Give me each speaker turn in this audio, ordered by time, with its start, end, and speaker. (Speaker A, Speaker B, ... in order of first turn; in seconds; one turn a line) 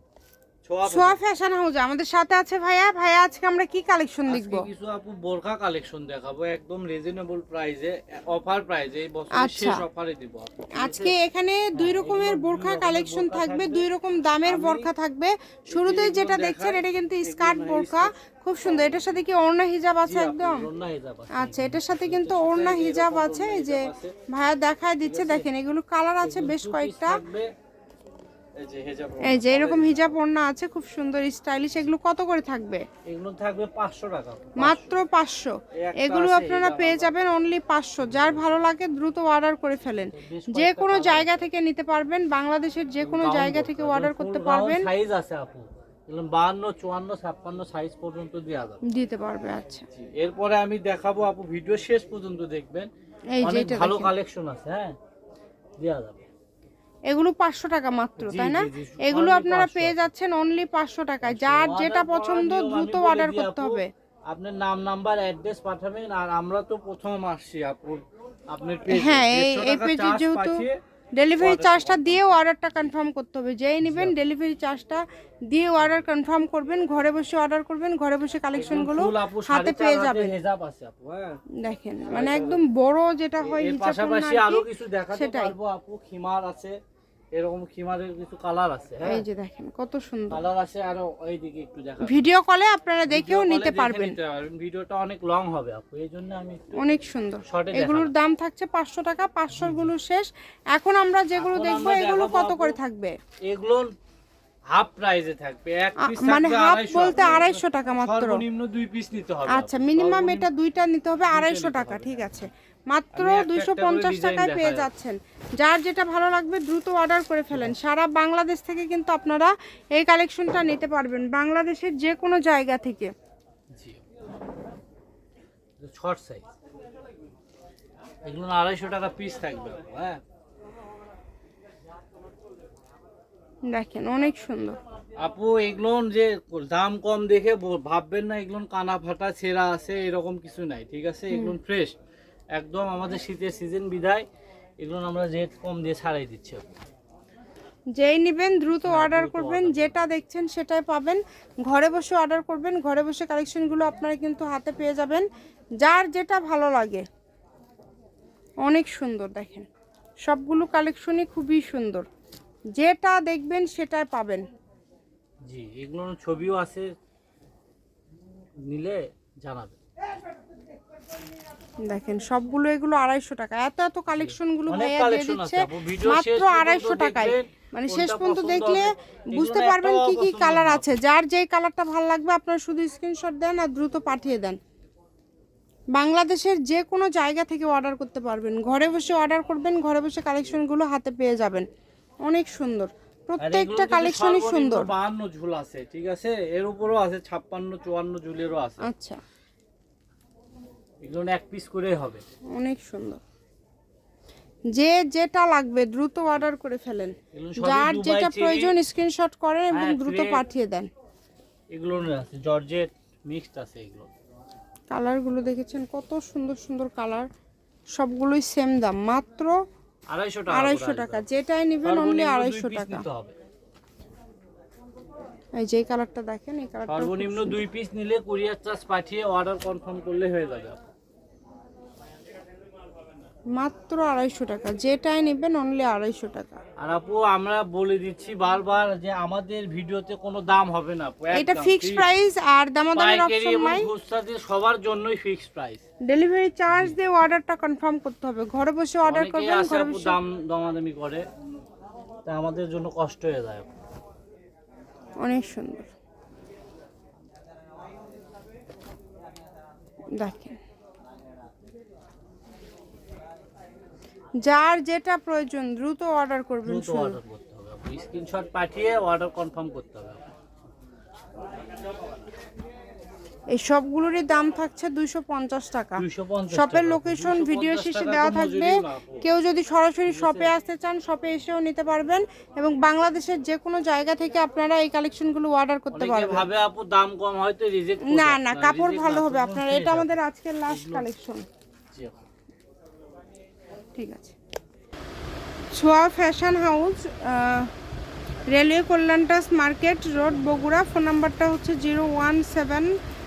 Speaker A: 0.6-1.2
Speaker B: 0.8-4.7
Speaker A: 4.3-11.2
Speaker B: 9.3-9.8
Speaker B: 10.7-20.7
Speaker A: 11.7-13.9
Speaker A: 14.4-14.9
Speaker A: 15.7-18.1
Speaker A: 18.6-19.1
Speaker A: 20.0-24.1
Speaker B: 21.3-27.2
Speaker A: 25.0-25.5
Speaker A: 26.2-27.5
Speaker A: 28.6-30.2
Speaker B: 29.2-32.8
Speaker A: 33.0-35.0
Speaker B: 34.6-44.9
Speaker A: 35.7-37.1
Speaker A: 38.0-38.5
Speaker A: 40.1-41.5
Speaker A: 43.0-48.8
Speaker B: 48.9-49.8
Speaker A: 49.9-52.9
Speaker B: 53.3-54.1
Speaker A: 53.4-55.0
Speaker A: 55.8-56.3
Speaker B: 57.1-63.9
Speaker A: 58.2-60.1
Speaker A: 61.2-70.8
Speaker B: 68.9-70.6
Speaker B: 71.2-80.3
Speaker A: 71.4-72.9
Speaker A: 73.8-74.2
Speaker A: 78.5-81.4
Speaker B: 81.6-85.5
Speaker A: 82.1-82.6
Speaker A: 83.4-86.8
Speaker A: 87.3-89.2
Speaker B: 89.0-90.4
Speaker A: 90.3-92.3
Speaker B: 92.0-94.2
Speaker A: 93.1-96.8
Speaker B: 96.8-103.1
Speaker A: 97.5-98.1
Speaker A: 99.5-99.9
Speaker A: 101.3-102.8
Speaker A: 103.4-103.9
Speaker A: 104.7-110.5
Speaker B: 106.0-108.4
Speaker B: 109.5-123.1
Speaker A: 111.3-112.2
Speaker A: 113.1-114.9
Speaker A: 117.5-117.8
Speaker A: 123.7-124.0
Speaker A: 125.8-126.4
Speaker A: 128.2-130.2
Speaker B: 133.7-134.8
Speaker A: 135.2-141.9
Speaker B: 141.3-141.6
Speaker A: 142.5-144.2
Speaker A: 144.8-146.7
Speaker B: 147.9-155.2
Speaker A: 148.8-150.0
Speaker B: 155.8-157.0
Speaker B: 158.6-159.7
Speaker B: 160.2-162.1
Speaker B: 162.7-164.4
Speaker A: 165.4-166.9
Speaker A: 168.7-169.8
Speaker B: 171.8-184.6
Speaker A: 174.1-180.9
Speaker B: 185.9-191.7
Speaker B: 192.2-194.9
Speaker A: 193.4-198.9
Speaker B: 198.8-199.2
Speaker A: 201.0-202.2
Speaker B: 202.5-203.2
Speaker B: 204.7-210.9
Speaker A: 207.3-208.8
Speaker A: 209.7-210.4
Speaker A: 211.7-214.1
Speaker B: 214.9-217.3
Speaker B: 217.9-219.5
Speaker A: 220.1-221.3
Speaker B: 220.5-223.0
Speaker A: 221.8-223.3
Speaker B: 225.6-227.6
Speaker A: 226.9-230.8
Speaker B: 233.5-236.6
Speaker A: 236.8-242.1
Speaker B: 241.3-243.9
Speaker A: 242.9-245.8
Speaker B: 246.1-250.2
Speaker A: 246.7-246.9
Speaker A: 249.0-251.2
Speaker A: 252.2-253.7
Speaker B: 255.2-255.9
Speaker B: 260.2-260.6
Speaker B: 264.4-267.2
Speaker A: 266.6-270.3
Speaker B: 273.5-286.5
Speaker A: 276.0-279.2
Speaker A: 280.1-280.5
Speaker A: 285.9-290.2
Speaker B: 288.0-291.4
Speaker A: 290.7-291.1
Speaker B: 293.9-294.3
Speaker B: 295.7-297.7
Speaker B: 298.5-302.9